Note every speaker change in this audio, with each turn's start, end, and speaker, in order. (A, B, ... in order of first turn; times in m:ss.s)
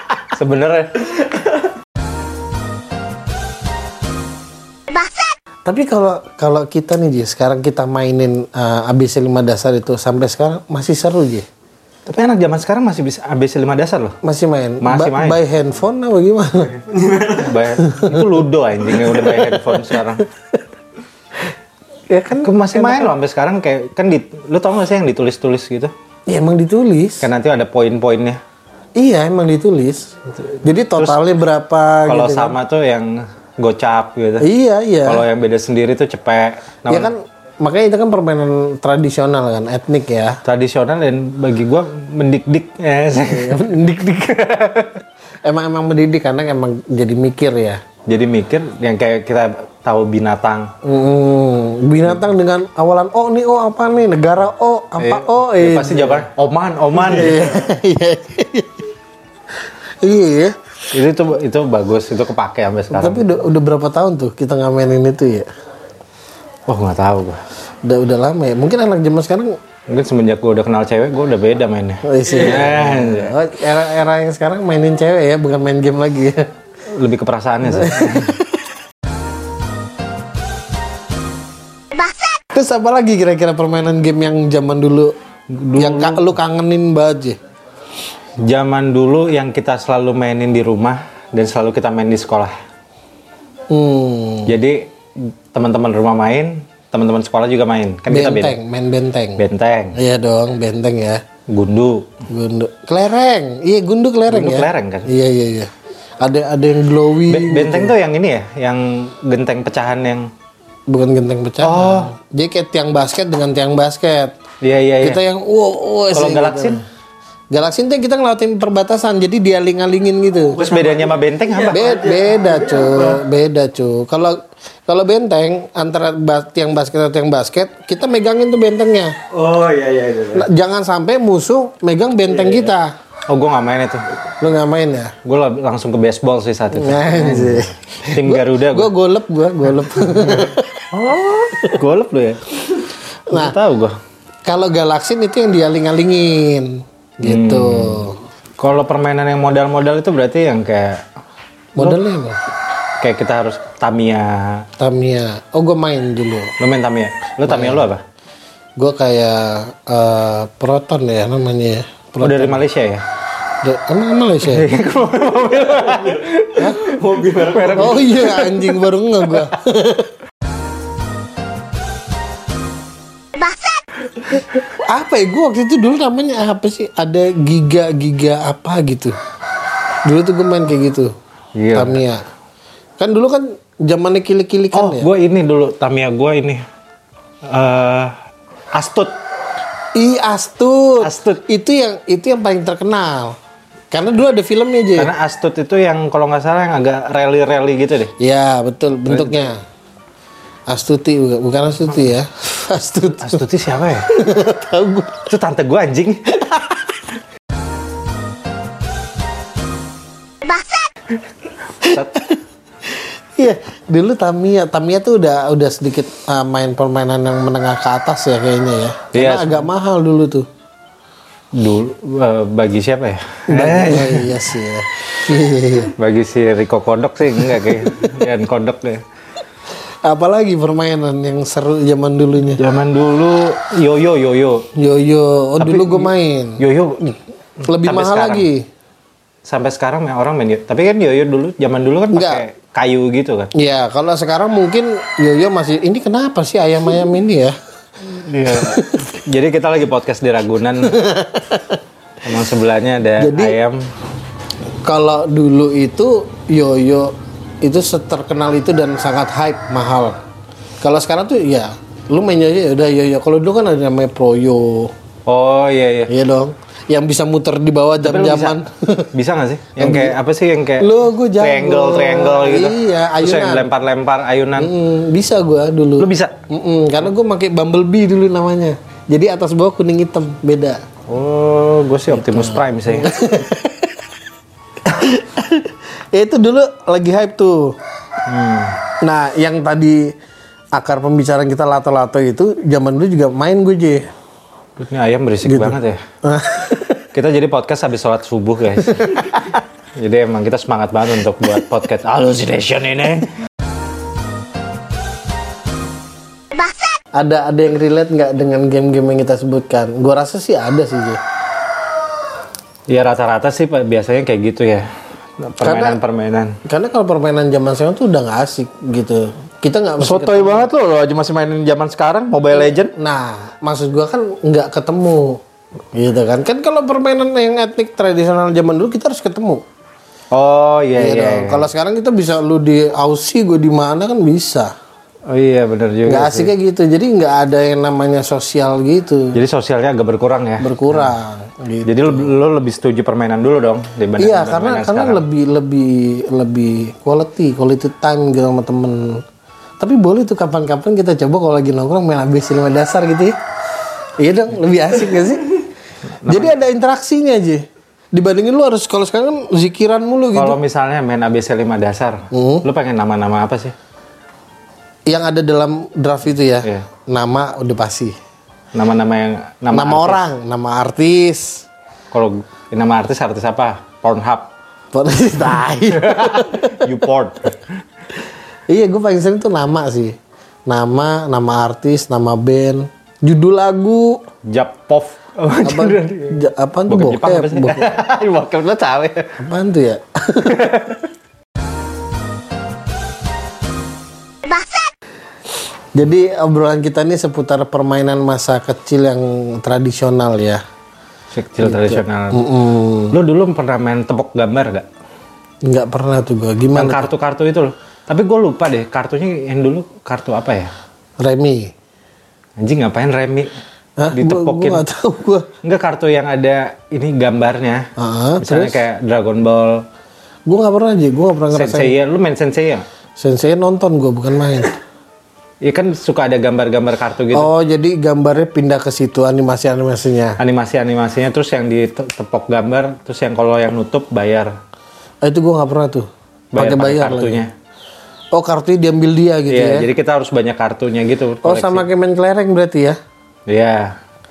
0:00.3-0:01.1 A
0:05.6-0:11.4 B
0:12.0-0:14.2 A
0:14.2-0:16.9 B
0:14.8-0:15.4 A
0:17.0-0:17.3 C
0:17.2-0:20.3 A
0:17.8-0:18.3 B
0:19.0-0:19.8 B
0:22.1-0:23.1 B
0:22.4-0:25.9 A
0:26.3-0:27.3 B
0:27.2-0:28.4 A
0:29.0-0:32.5 B
0:30.9-0:31.2 A
0:32.0-0:34.5 A
0:34.4-0:35.2 B
0:35.0-0:37.1 A
0:36.9-0:40.4 B
0:40.4-0:43.7 A
0:43.2-0:44.9 B
0:45.4-0:47.8 B
0:48.1-0:50.7 A
0:50.8-0:56.2 B
0:55.0-0:57.4 A
0:56.9-0:58.8 B
1:00.0-1:00.6 B
1:00.9-1:03.3 A
1:02.9-1:05.5 B
1:06.7-1:07.4 A
1:07.8-1:09.6 B
1:09.9-1:13.3 A
1:12.0-1:16.5 B
1:16.9-1:18.4 A
1:17.7-1:18.4 B
1:22.5-1:25.1 B
1:25.5-1:26.3 A
1:25.8-1:27.4 B
1:28.4-1:32.5 A
1:33.7-1:34.5 B
1:34.4-1:38.6 A
1:38.1-1:39.4 B
1:39.4-1:40.0 A
1:39.9-1:41.2 B
1:41.5-1:42.2 A
1:42.3-1:47.9 B
1:44.3-1:45.1 A
1:47.3-1:50.3 A
1:50.9-1:54.4 B
1:51.6-1:52.1 A
1:54.6-1:55.2 A
1:55.0-1:56.8 B
1:56.1-1:56.8 A
1:57.5-2:00.6 B
2:00.6-2:01.9 A
2:00.6-2:03.2 C
2:01.7-2:09.2 B
2:09.3-2:10.5 C
2:10.3-2:12.9 B
2:13.3-2:14.0 A
2:14.4-2:15.1 B
2:15.2-2:18.9 A
2:16.7-2:20.9 B
2:20.0-2:22.8 A
2:23.3-2:23.6 B
2:23.3-2:24.0 A
2:24.4-2:28.2 B
2:27.2-2:31.0 A
2:31.8-2:32.4 B
2:33.0-2:34.7 A
2:34.8-2:36.5 B
2:36.6-2:38.0 A
2:37.4-2:37.9 B
2:38.8-2:42.6 B
2:42.2-2:43.0 A
2:43.6-2:44.7 B
2:44.4-2:48.7 A
2:45.8-2:48.4 C
2:47.7-2:50.1 B
2:54.6-2:59.2 B
3:00.0-3:01.1 B
3:01.6-3:02.0 A
3:01.7-3:02.2 B
3:03.0-3:05.1 B
3:04.7-3:06.6 A
3:07.4-3:08.1 A
3:08.7-3:09.1 A
3:09.9-3:13.4 B
3:11.0-3:11.4 A
3:13.9-3:15.1 B
3:15.0-3:18.1 A
3:18.2-3:19.6 B
3:19.1-3:19.4 A
3:20.7-3:23.4 B
3:23.2-3:24.1 A
3:24.1-3:25.3 B
3:25.3-3:26.3 A
3:31.8-3:32.2 A
3:32.1-3:40.5 B
3:39.1-3:39.6 A
3:41.5-3:44.4 A
3:43.5-3:45.9 B
3:45.9-3:49.0 A
3:47.8-3:48.1 B
3:50.0-3:52.6 B
3:52.6-3:54.6 A
3:54.8-3:56.6 B
3:55.6-3:58.5 A
3:57.6-3:58.6 B
3:59.4-4:03.5 A
4:02.1-4:02.4 B
4:03.5-4:07.6 B
4:08.0-4:11.0 A
4:08.4-4:09.1 B
4:10.8-4:11.8 B
4:12.2-4:13.8 A
4:13.2-4:13.6 B
4:14.8-4:20.2 B
4:20.8-4:24.9 B
4:25.3-4:26.1 A
4:26.1-4:29.1 B
4:28.0-4:34.7 A
4:29.8-4:30.2 B
4:30.8-4:33.7 B
4:34.6-4:40.8 B
4:36.0-4:36.4 A
4:41.1-4:43.1 A
4:42.1-4:44.0 B
4:44.8-4:47.8 B
4:48.3-4:48.8 A
4:49.0-4:50.1 B
4:50.7-4:54.1 B
4:54.8-4:56.0 A
4:55.4-4:57.0 B
4:57.1-4:59.4 A
4:58.9-4:59.6 B
5:00.0-5:03.3 A
5:07.1-5:11.2 B
5:12.9-5:14.9 A
5:15.4-5:16.6 A
5:15.6-5:16.0 B
5:16.6-5:20.7 B
5:20.0-5:22.9 A
5:22.9-5:25.4 B
5:25.9-5:29.6 B
5:30.3-5:31.7 A
5:31.0-5:34.7 B
5:35.3-5:36.5 A
5:36.0-5:39.4 B
5:39.3-5:41.1 A
5:40.6-5:42.3 B
5:41.8-5:45.2 A
5:44.2-5:49.2 B
5:49.8-5:53.4 B
5:54.2-5:55.6 B
5:56.2-5:56.5 A
5:56.2-6:00.6 B
6:00.3-6:03.7 A
6:02.3-6:02.6 B
6:05.1-6:08.1 B
6:08.7-6:10.2 A
6:09.7-6:11.6 B
6:12.1-6:14.5 A
6:14.9-6:16.8 B
6:15.9-6:17.6 A
6:18.7-6:20.1 B
6:20.7-6:24.2 B
6:24.5-6:29.4 A
6:25.6-6:27.9 B
6:29.4-6:30.7 B
6:30.4-6:31.0 A
6:35.9-6:40.6 B
6:41.3-6:42.4 A
6:41.6-6:43.2 B
6:43.1-6:44.9 A
6:45.6-6:47.1 B
6:46.7-6:50.7 A
6:51.2-6:51.7 B
6:52.6-6:53.5 A
6:54.0-6:55.5 B
6:54.1-6:54.8 A
6:55.6-6:57.9 A
6:58.0-6:58.8 B
6:58.4-6:59.8 A
7:00.5-7:01.9 B
7:01.5-7:02.8 A
7:03.2-7:04.8 B
7:05.6-7:07.5 A
7:07.3-7:10.4 B
7:10.4-7:14.5 A
7:15.2-7:17.4 B
7:16.5-7:17.5 A
7:18.3-7:19.9 B
7:19.5-7:21.8 A
7:21.4-7:23.0 B
7:23.5-7:24.0 A